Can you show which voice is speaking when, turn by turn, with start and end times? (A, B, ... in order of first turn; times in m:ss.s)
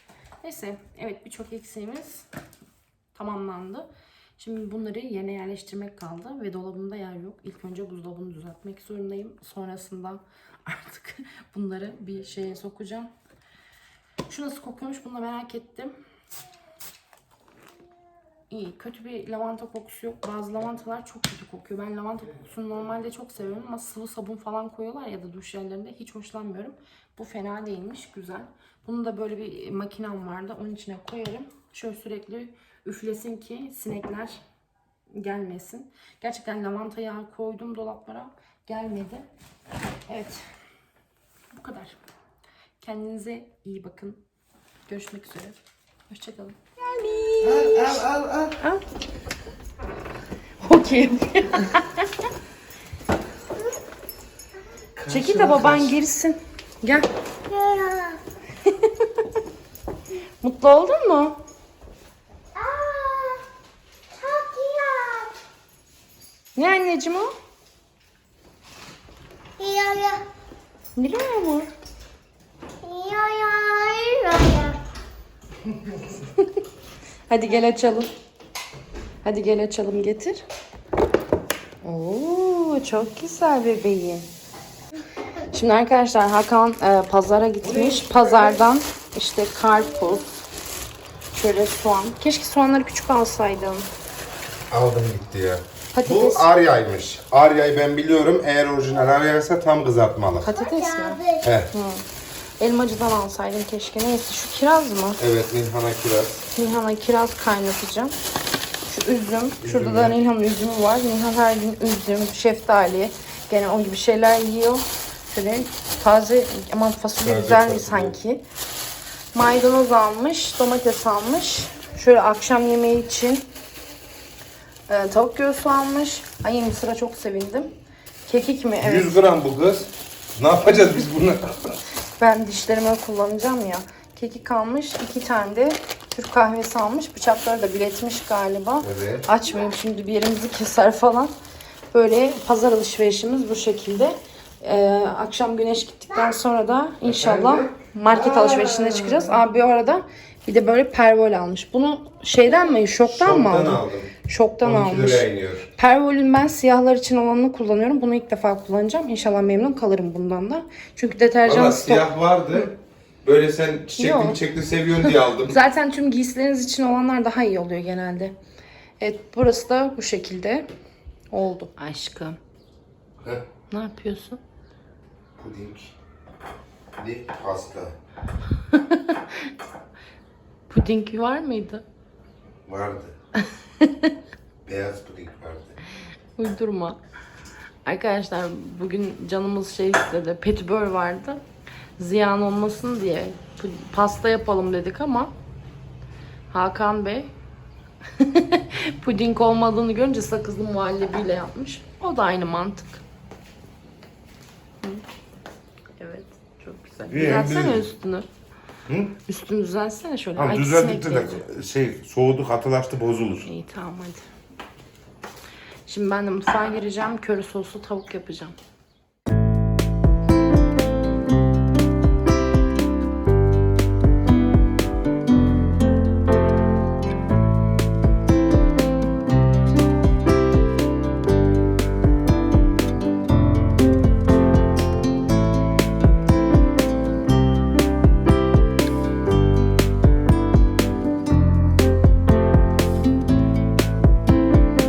0:00.4-0:02.3 A
0:03.1-0:13.1 A
0:14.3-0:16.0 A
0:18.5-0:34.4 A
0:35.1-0:39.3 A
0:40.1-0:40.4 A
0:41.5-0:42.0 A
0:42.8-0:44.2 A
0:44.9-0:48.0 A
0:47.4-0:48.6 B
0:50.6-0:52.3 A
0:55.0-0:56.0 B
0:55.1-0:57.1 A
0:57.5-0:58.2 C
0:58.7-0:59.1 A
1:00.4-1:01.4 A
1:02.6-1:03.4 C
1:04.1-1:05.3 C
1:06.6-1:07.3 A
1:09.6-1:10.2 C
1:11.0-1:11.7 A
1:12.8-1:14.8 C
1:17.3-1:18.1 A
1:19.2-1:20.4 A
1:21.8-1:24.3 A
1:25.5-1:30.3 A
1:27.6-1:28.7 B
1:31.3-1:33.9 A
1:34.7-1:40.5 B
1:35.9-1:36.5 A
1:40.4-1:42.1 A
1:40.5-1:41.5 C
1:41.4-1:41.7 B
1:42.6-1:45.2 A
1:45.2-1:46.5 B
1:46.5-1:48.2 A
1:48.9-1:58.4 A
1:49.6-1:50.2 B
1:57.2-1:58.2 B
1:59.3-2:03.5 A
2:04.9-2:07.8 A
2:08.3-2:09.2 A
2:08.8-2:11.8 B
2:10.7-2:10.9 A
2:12.2-2:21.3 A
2:18.8-2:19.3 B
2:21.9-2:42.7 A
2:27.0-2:29.4 B
2:33.1-2:34.1 B
2:34.6-2:35.7 B
2:41.4-2:45.6 B
2:44.0-2:44.4 A
2:45.0-2:48.4 A
2:49.0-2:50.7 A
2:51.3-2:52.4 A
2:53.7-2:54.4 A
2:55.4-2:56.0 B
2:57.0-2:58.0 B
2:58.7-2:59.5 A
3:00.7-3:01.8 A
3:02.6-3:03.2 B
3:03.8-3:04.1 A
3:04.6-3:05.8 B
3:06.4-3:07.0 A
3:07.8-3:11.4 A
3:12.0-3:15.3 A
3:16.5-3:17.3 A
3:18.2-3:23.0 A
3:26.0-3:28.3 A
3:27.1-3:27.8 B
3:28.9-3:29.1 B
3:29.3-3:31.4 A
3:30.4-3:33.5 B
3:33.4-3:34.3 A
3:35.9-3:38.6 A